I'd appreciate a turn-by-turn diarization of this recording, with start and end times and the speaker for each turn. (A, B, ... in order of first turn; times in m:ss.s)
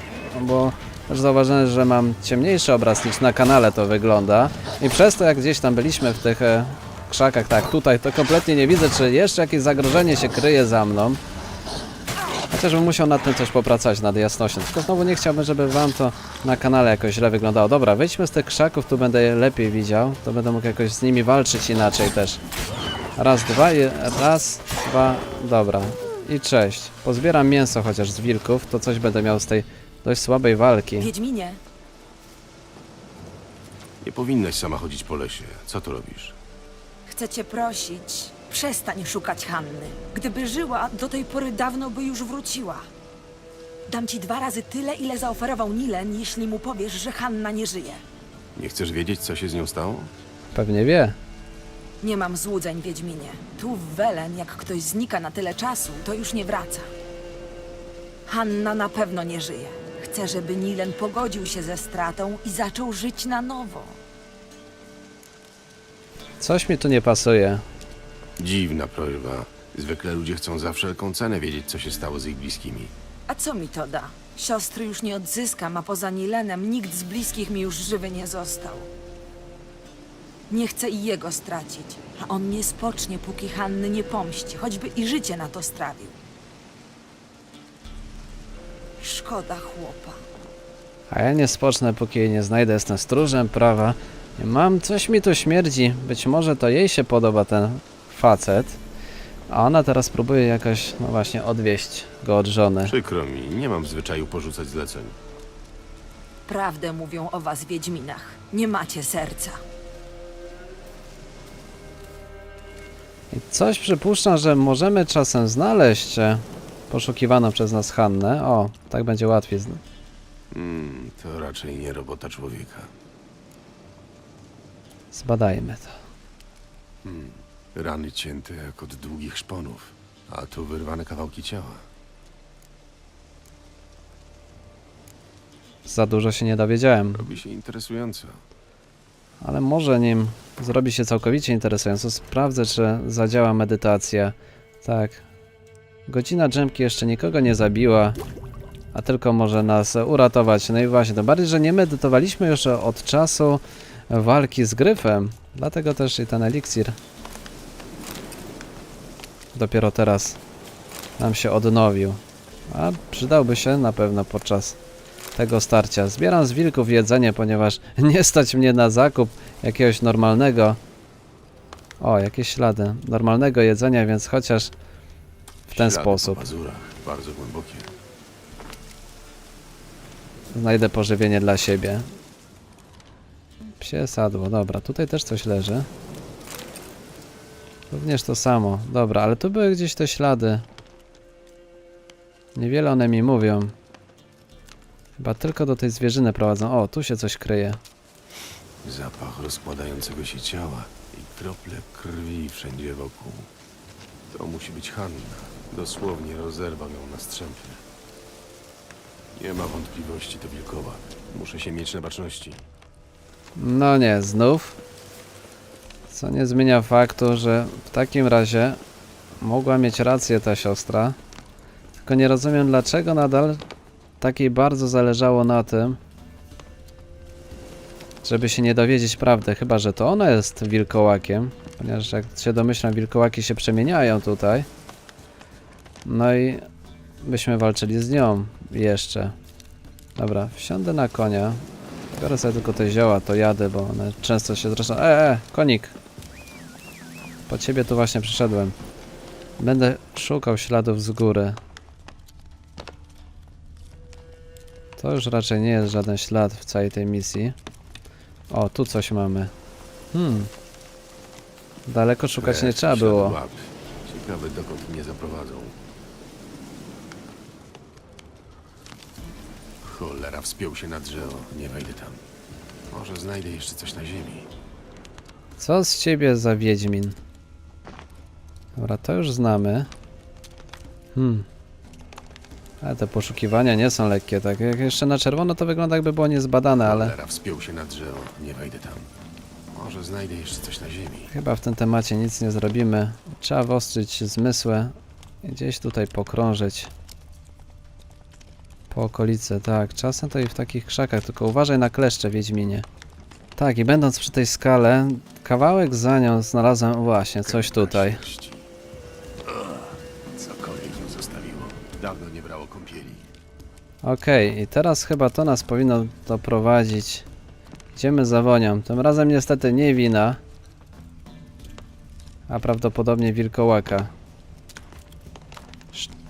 0:00.2-0:11.2 A
0:12.5-0:22.4 A
0:23.2-0:31.1 A
0:31.0-0:31.6 B
0:34.0-0:36.4 C
0:37.1-0:42.9 B
0:43.9-0:48.0 B
0:48.6-0:50.1 C
0:50.5-0:51.2 A
0:52.0-0:56.9 B
0:58.3-1:04.0 B
1:06.4-1:07.6 A
1:08.4-1:12.9 C
1:13.3-1:18.9 B
1:20.5-1:26.2 B
1:29.0-1:30.2 B
1:31.1-1:38.8 A
1:39.5-1:42.9 A
1:42.8-1:45.2 C
1:46.4-1:49.6 B
1:53.3-1:59.8 A
2:00.5-2:02.9 C
2:05.1-2:06.0 A
2:07.0-2:11.8 C
2:15.8-2:17.3 A
2:17.1-2:18.4 C
2:19.4-2:25.2 A
2:26.1-2:28.2 A
2:28.9-2:37.0 A
2:39.5-2:40.4 A
2:41.2-2:44.8 A
2:45.3-2:50.8 A
2:52.0-2:54.7 A
2:55.7-2:56.4 A
2:55.7-2:57.9 C
3:00.5-3:02.1 A
3:03.8-3:05.9 A
3:07.9-3:10.6 A
3:12.5-3:13.7 A
3:15.2-3:17.8 A
3:18.8-3:23.5 C
3:24.3-3:27.8 C
3:29.4-3:32.6 C
3:33.6-3:34.8 A
3:36.1-3:38.8 A
3:39.4-3:41.2 A
3:42.0-3:43.6 A
3:44.2-3:46.0 A
3:48.2-3:54.7 A
3:56.0-3:56.6 A
3:57.2-3:59.3 A
4:00.2-4:01.6 A
4:02.1-4:05.9 A
4:07.5-4:08.7 A
4:09.6-4:11.6 A
4:15.0-4:17.5 A
4:18.5-4:19.5 A
4:20.1-4:20.5 A
4:21.9-4:23.4 A
4:22.4-4:25.8 C
4:29.8-4:32.2 C
4:32.9-4:34.5 C
4:35.6-4:37.2 A
4:38.8-4:39.9 A
4:41.1-4:41.4 A
4:42.8-4:47.1 A
4:46.8-4:49.1 C
4:49.7-4:51.3 C
4:51.3-4:56.9 A
4:58.9-5:02.8 A
5:03.6-5:08.2 A
5:07.4-5:08.7 C
5:09.4-5:13.2 C
5:14.0-5:17.2 A
5:18.0-5:20.4 A
5:22.5-5:24.1 A